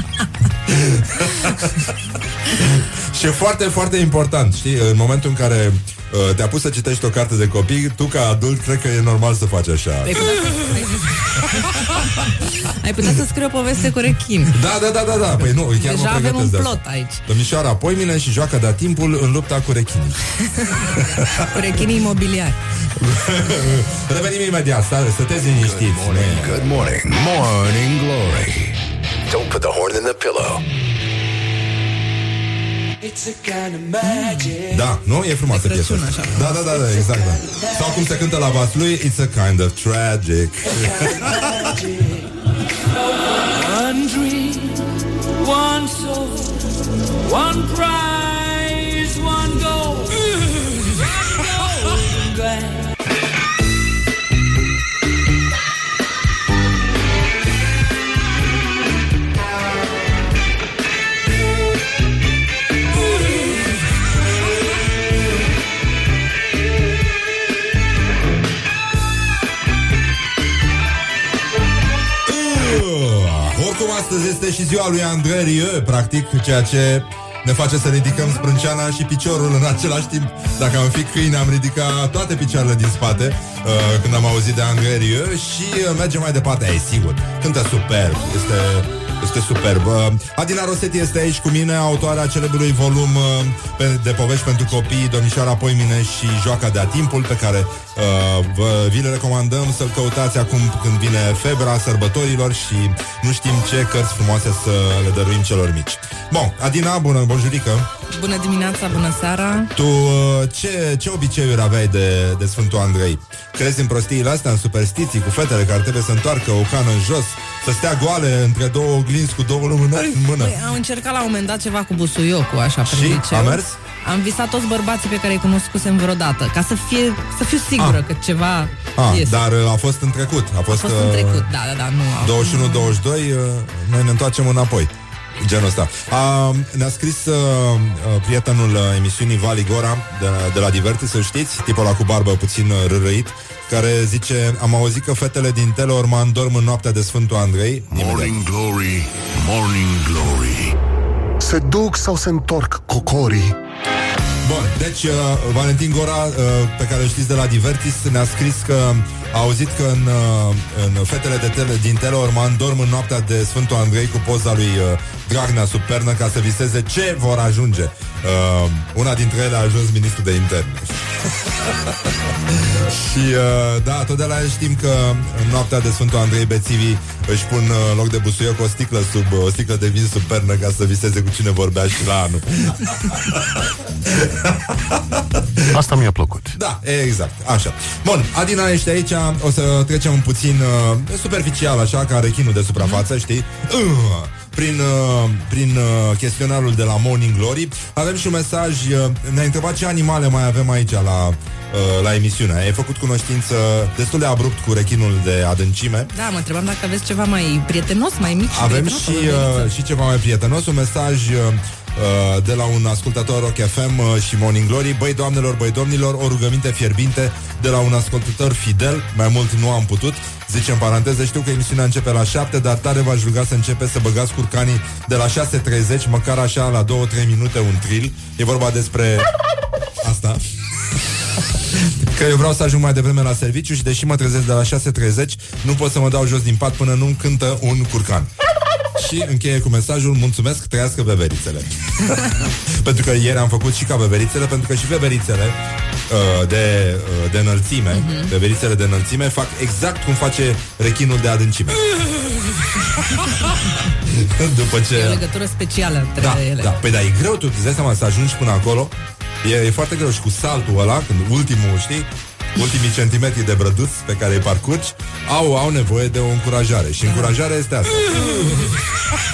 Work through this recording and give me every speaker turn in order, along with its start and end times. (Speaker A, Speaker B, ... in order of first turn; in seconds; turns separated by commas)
Speaker A: 0.7-1.9, Speaker A: 2.5-10.2, Speaker B: 10.0-14.6, Speaker A: 11.8-12.3, Speaker A: 14.5-21.5, Speaker B: 15.4-17.2, Speaker B: 20.5-22.6, Speaker A: 22.9-26.6, Speaker C: 25.6-30.6, Speaker D: 33.0-34.8, Speaker B: 34.0-34.5, Speaker A: 34.7-41.4, Speaker B: 35.5-37.3, Speaker D: 41.0-42.3, Speaker D: 43.0-53.0, Speaker A: 72.2-107.9, Speaker B: 108.1-109.7, Speaker A: 109.7-120.6, Speaker B: 120.4-129.4, Speaker A: 122.8-123.8, Speaker A: 128.9-131.5, Speaker B: 130.7-133.0, Speaker A: 132.2-134.9, Speaker A: 135.4-148.4, Speaker E: 147.9-150.8, Speaker E: 151.4-153.5, Speaker A: 154.4-171.9, Speaker A: 172.5-185.7, Speaker E: 185.7-186.6, Speaker A: 186.5-206.1, Speaker B: 192.8-193.1, Speaker B: 206.1-209.7, Speaker A: 208.5-229.3, Speaker A: 230.0-230.4, Speaker A: 232.1-238.3, Speaker A: 238.9-245.6, Speaker A: 246.1-251.8, Speaker B: 247.9-248.3, Speaker A: 253.1-255.2, Speaker B: 254.9-256.8, Speaker A: 256.2-268.8, Speaker B: 267.0-267.4